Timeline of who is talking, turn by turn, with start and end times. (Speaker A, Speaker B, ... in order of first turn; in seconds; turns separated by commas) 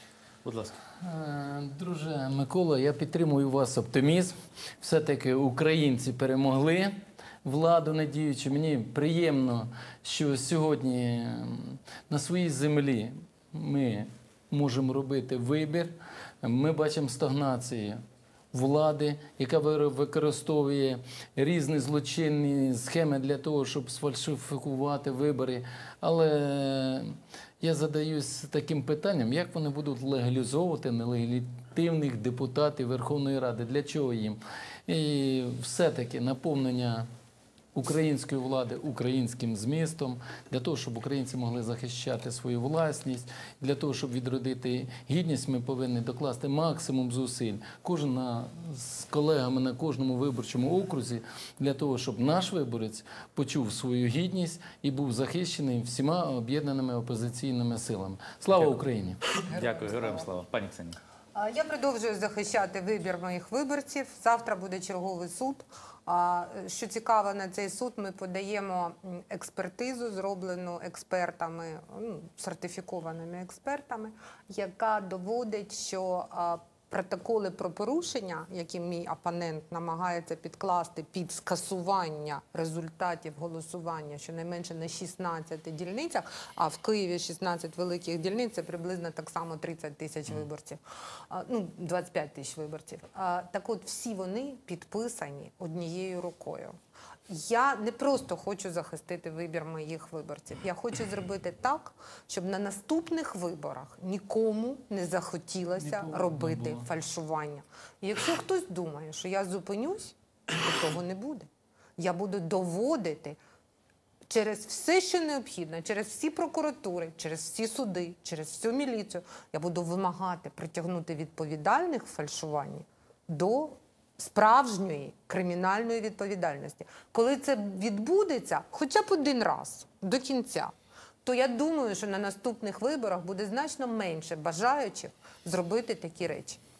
Speaker A: 0.5-0.8, Speaker B: 1.0-37.1, Speaker B: 37.7-59.2, Speaker A: 58.5-58.8, Speaker A: 59.4-61.0, Speaker C: 59.5-60.2, Speaker C: 61.4-96.8, Speaker C: 97.3-113.4, Speaker B: 106.0-106.7, Speaker C: 114.3-130.7, Speaker C: 131.2-136.6